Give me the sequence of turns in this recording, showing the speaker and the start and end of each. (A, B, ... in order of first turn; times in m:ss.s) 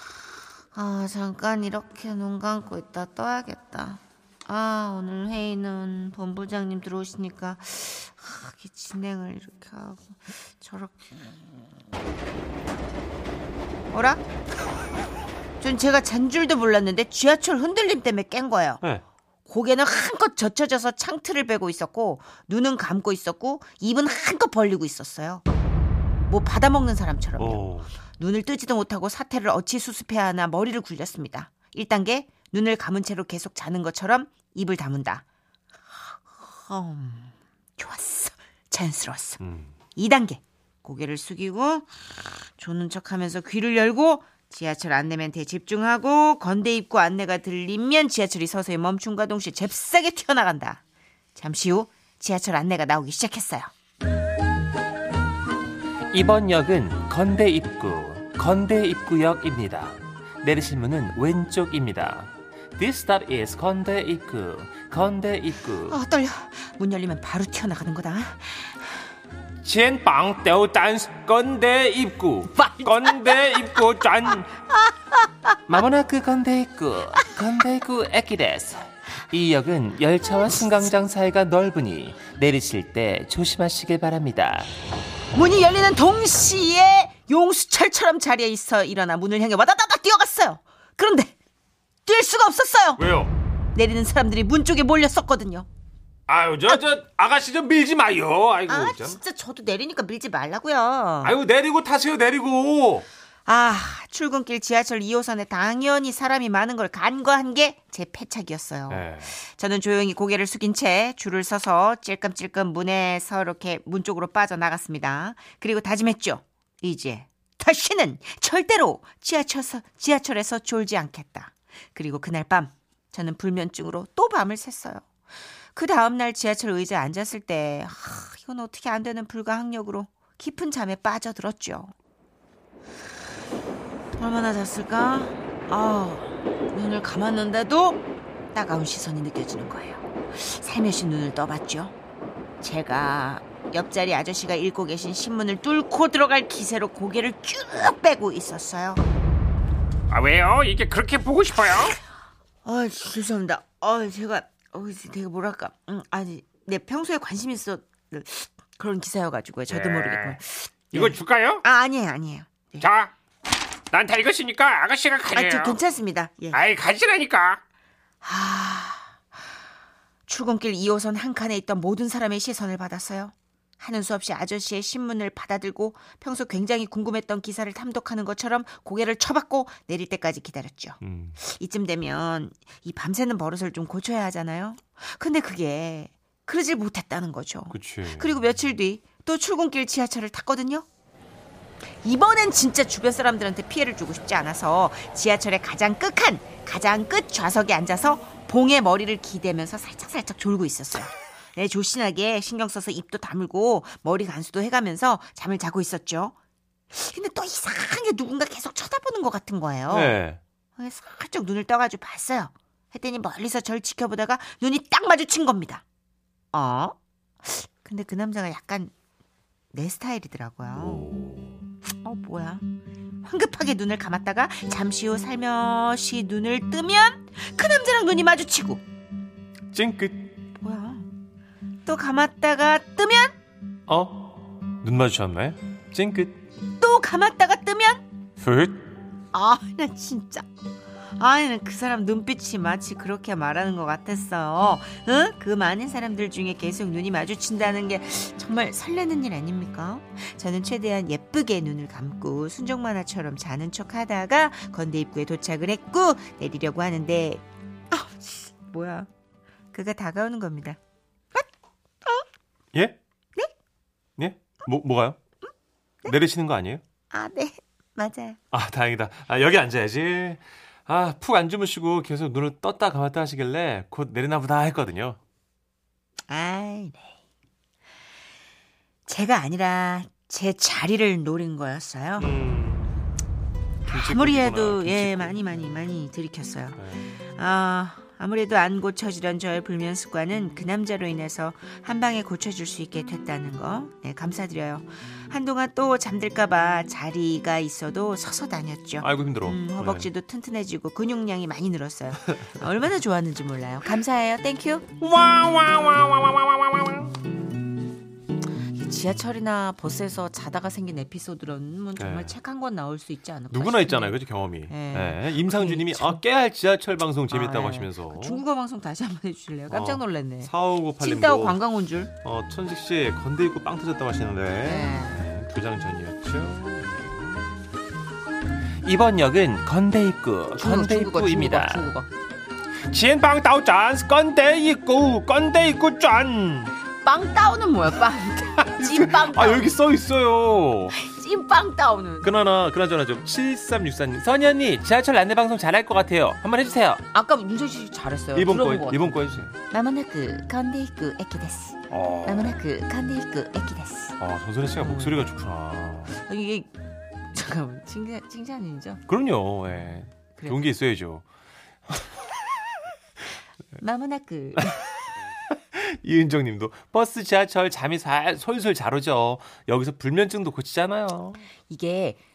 0:00.7-0:11.1 A
0:13.9-0:14.2 A
0:15.6-0:18.8 A
0:19.4-0:25.4 A
0:26.3-0:35.2 A
0:27.4-0:28.0 B
0:36.3-0:39.4 A
0:39.4-0:39.7 B
0:39.9-0:50.8 A
0:51.3-0:53.7 A
0:56.1-1:06.0 B
1:05.8-1:09.0 A
1:09.6-1:14.4 B
1:12.6-1:13.4 A
1:13.2-1:14.4 C
1:14.9-1:15.3 A
1:15.7-1:24.7 B
1:25.3-1:31.3 A
1:32.0-1:33.0 A
1:33.0-1:33.3 B
1:33.7-1:35.7 A
1:36.3-1:39.2 B
1:38.6-1:41.4 A
1:41.2-1:43.1 B
1:43.4-2:05.0 A
1:48.9-1:49.4 B
2:05.7-2:11.9 A
2:14.2-2:18.0 A
2:18.5-2:21.9 A
2:22.6-2:29.0 A
2:30.1-2:32.0 C
2:32.6-2:42.9 A
2:39.7-2:40.4 C
2:40.9-2:41.6 C
2:42.8-2:43.1 C
2:43.9-2:45.8 C
2:45.3-2:46.6 A
2:46.5-2:47.6 C
2:48.2-2:49.2 A
2:50.3-3:10.8 A
3:01.0-3:01.4 B
3:07.7-3:08.4 B
3:12.0-3:26.3 A
3:26.9-3:30.2 A
3:29.9-3:30.4 B
3:30.8-3:35.8 A
3:36.5-3:38.9 A
3:39.7-3:41.1 A
3:40.8-3:41.6 B
3:42.0-3:42.6 A
3:43.2-3:48.8 A
3:49.7-3:50.3 B
3:50.6-3:51.0 A
3:51.8-3:53.4 A
3:53.9-3:56.4 B
3:56.8-3:58.0 A
3:58.4-3:58.8 B
3:59.3-4:00.4 A
4:01.2-4:19.1 A
4:19.7-4:20.8 A
4:22.7-4:23.0 B
4:24.2-4:25.2 B
4:26.0-4:26.8 B
4:27.1-4:28.4 A
4:28.5-4:35.2 B
4:36.3-4:37.1 A
4:39.1-4:42.3 A
4:42.2-4:43.0 B
4:43.8-4:45.6 B
4:43.8-5:04.9 A
4:46.8-4:47.2 B
4:59.0-5:00.1 B
5:05.0-5:06.8 B
5:08.7-5:16.2 A
5:12.0-5:12.3 B
5:13.5-5:18.4 B
5:17.3-5:22.1 A
5:19.7-5:21.6 B
5:22.2-5:27.5 B
5:24.6-5:25.3 A
5:28.8-5:31.9 B
5:30.5-5:32.1 A
5:32.9-5:36.7 B
5:37.0-5:39.8 A
5:38.6-5:41.0 B
5:40.9-5:42.3 A
5:42.2-5:47.0 B
5:47.1-5:54.2 A
5:48.3-5:49.5 B
5:51.9-5:52.6 B
5:54.2-5:56.2 B
5:54.8-5:55.3 A
5:56.1-5:56.7 A
5:57.2-5:59.0 A
5:59.1-6:01.2 B
6:00.4-6:00.6 A
6:03.8-6:04.8 A
6:05.5-6:11.4 B
6:11.7-6:12.2 A